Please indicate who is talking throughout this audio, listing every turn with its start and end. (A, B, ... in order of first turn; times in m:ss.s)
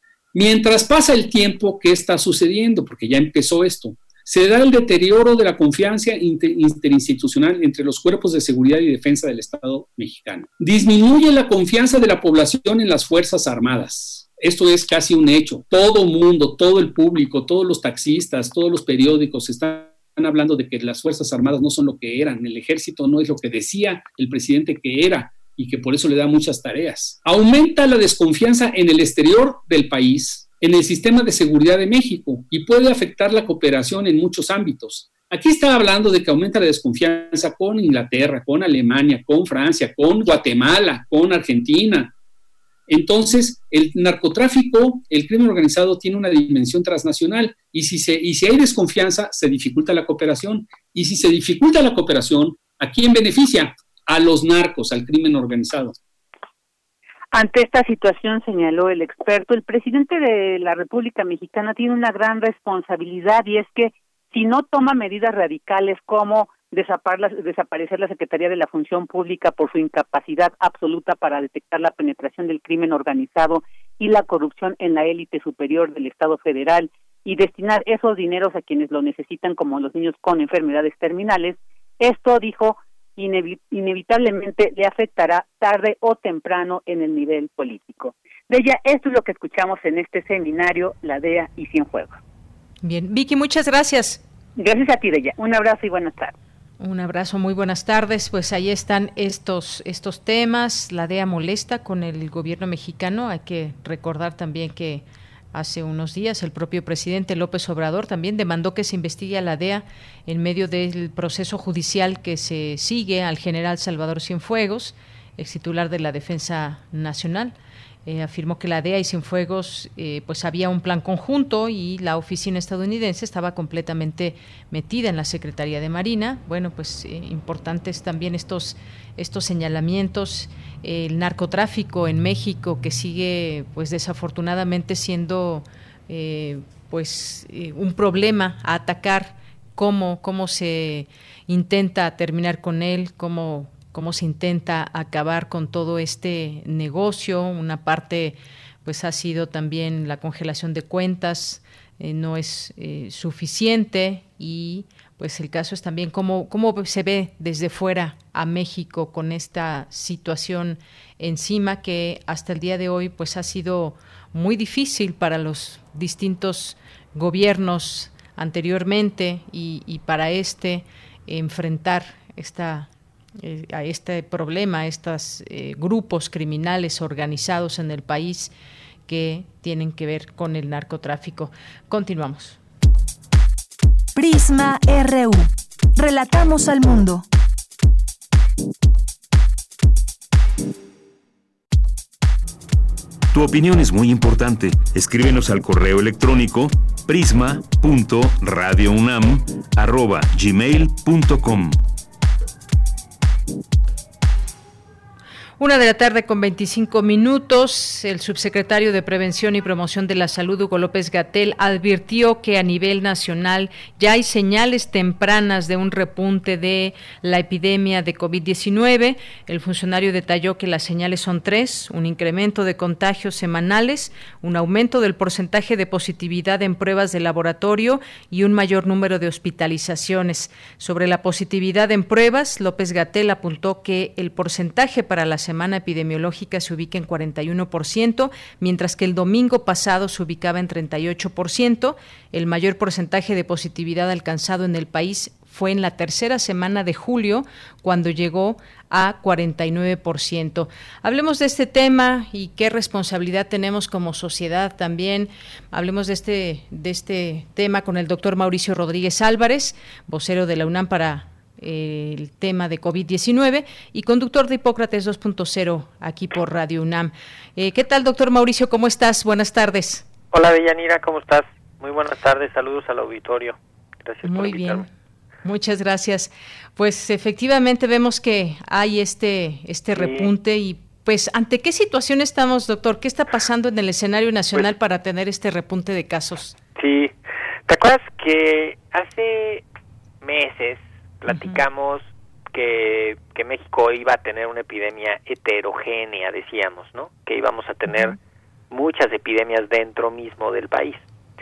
0:00.3-0:42.1 A
0:42.9-0:56.0 A
0:57.3-1:32.2 B
1:32.8-1:34.2 C
1:34.6-1:36.4 B
1:36.8-1:57.5 C
1:58.1-2:58.5 C
2:59.1-3:02.6 C
3:04.2-3:07.3 D
3:13.3-3:21.8 E
3:25.6-4:30.0 C
4:30.3-4:34.9 F
4:34.2-4:34.9 C
4:35.4-4:46.6 C
4:40.0-4:40.3 F
4:46.8-4:49.6 F
4:50.2-4:58.2 F
4:51.3-4:51.6 C
4:57.9-4:58.2 C
4:58.7-5:01.1 F